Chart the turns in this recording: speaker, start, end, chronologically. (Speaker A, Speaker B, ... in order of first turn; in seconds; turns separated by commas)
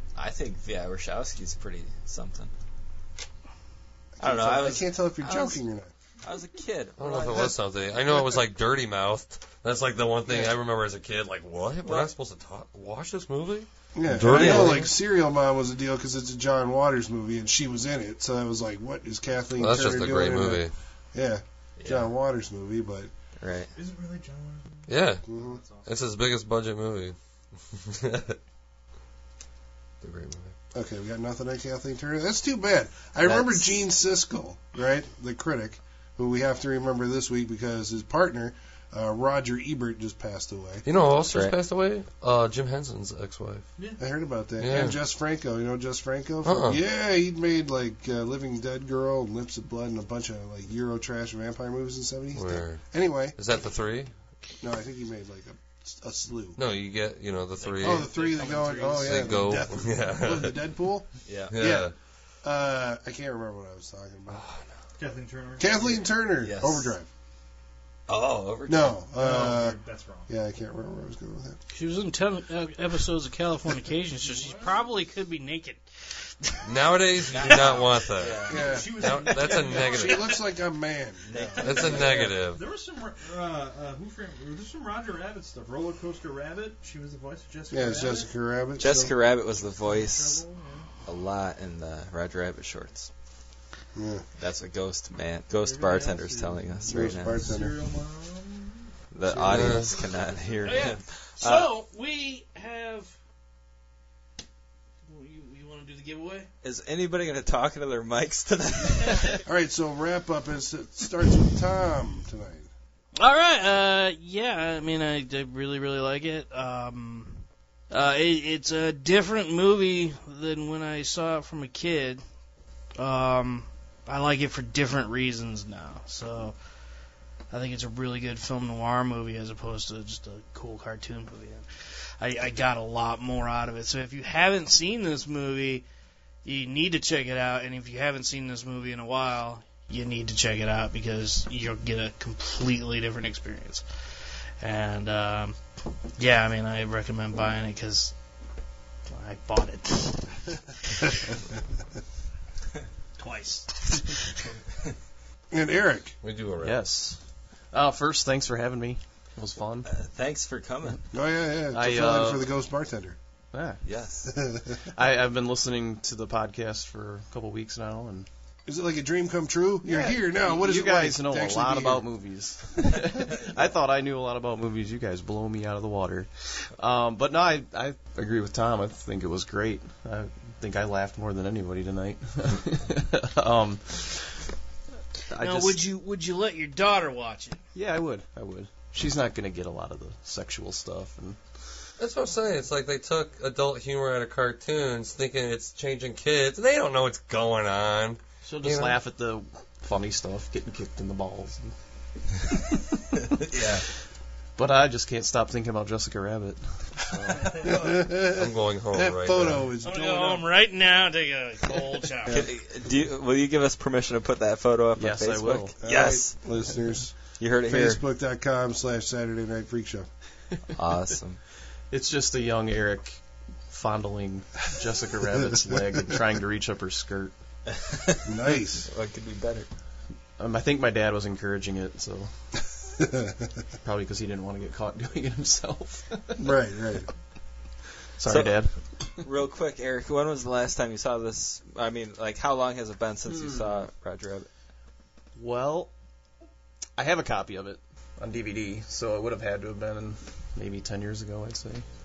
Speaker A: 0.1-2.5, Speaker B: 4.2-5.9, Speaker A: 4.2-5.6, Speaker A: 6.2-7.5, Speaker C: 7.0-14.9, Speaker B: 13.9-23.1, Speaker A: 14.3-14.9, Speaker C: 19.6-20.7, Speaker A: 21.8-22.1, Speaker A: 23.4-23.7, Speaker D: 23.8-25.9, Speaker C: 24.9-25.2, Speaker B: 25.3-25.6, Speaker C: 25.9-27.2, Speaker C: 27.7-28.4, Speaker C: 30.0-30.4, Speaker B: 30.7-40.9, Speaker A: 33.2-33.6, Speaker C: 40.9-43.6, Speaker A: 41.3-41.5, Speaker B: 44.0-53.4, Speaker C: 44.6-45.0, Speaker C: 46.4-46.8, Speaker C: 52.3-54.1, Speaker B: 54.6-56.6, Speaker C: 56.6-58.1, Speaker D: 57.6-59.4, Speaker B: 57.8-61.9, Speaker C: 58.9-60.6, Speaker A: 61.3-61.5, Speaker C: 61.5-61.9, Speaker B: 62.4-64.4, Speaker C: 64.3-64.6, Speaker D: 65.0-66.1, Speaker B: 65.6-67.1, Speaker A: 66.4-66.9, Speaker A: 68.1-69.0, Speaker B: 68.7-71.6, Speaker D: 69.1-70.3, Speaker E: 71.7-76.7, Speaker D: 74.2-74.8, Speaker C: 76.7-80.3, Speaker A: 77.3-78.8, Speaker D: 77.4-80.4, Speaker B: 78.5-82.0, Speaker A: 81.3-82.3, Speaker D: 81.4-88.3, Speaker C: 81.6-82.6, Speaker B: 87.7-89.1, Speaker A: 88.8-90.4, Speaker D: 89.7-91.0, Speaker A: 91.0-93.1, Speaker B: 94.0-94.2, Speaker A: 94.4-97.5, Speaker D: 95.5-100.9, Speaker B: 96.9-97.8, Speaker A: 99.1-101.7, Speaker B: 99.4-99.7, Speaker C: 99.5-99.9, Speaker E: 100.6-103.1, Speaker E: 105.1-106.5, Speaker A: 106.6-109.4, Speaker B: 109.5-112.7, Speaker E: 113.2-122.2, Speaker E: 123.0-126.6, Speaker E: 127.5-131.7, Speaker E: 132.2-135.8, Speaker E: 136.4-143.8, Speaker E: 144.6-145.6, Speaker E: 146.2-148.1, Speaker E: 149.1-151.3, Speaker E: 153.2-154.3, Speaker B: 155.5-156.2, Speaker C: 156.2-156.8, Speaker F: 156.6-157.2, Speaker F: 157.7-159.9, Speaker A: 159.8-161.0, Speaker B: 161.1-163.2, Speaker F: 161.7-162.5, Speaker F: 163.5-163.8, Speaker A: 163.8-164.3, Speaker B: 164.3-164.8, Speaker F: 164.9-168.3, Speaker B: 168.7-172.1, Speaker F: 169.8-184.4, Speaker F: 185.3-185.8, Speaker E: 185.4-187.6, Speaker F: 187.7-191.4, Speaker C: 192.0-199.0, Speaker F: 198.4-201.7, Speaker F: 202.5-202.9, Speaker A: 203.2-203.9, Speaker F: 204.6-207.7, Speaker B: 207.6-210.5, Speaker C: 208.3-209.7, Speaker E: 209.8-212.4, Speaker A: 212.3-216.4, Speaker F: 215.0-215.8, Speaker B: 215.8-220.1, Speaker A: 217.4-218.0, Speaker A: 220.8-221.4, Speaker F: 221.9-227.3, Speaker A: 227.7-228.2, Speaker B: 228.3-228.9, Speaker A: 228.8-229.7, Speaker F: 230.4-232.3, Speaker B: 233.0-233.3, Speaker F: 233.8-236.5, Speaker B: 236.4-237.1, Speaker F: 238.2-238.8, Speaker A: 238.3-238.6, Speaker A: 239.2-244.5, Speaker F: 243.3-243.8, Speaker F: 245.4-245.9, Speaker F: 247.0-251.9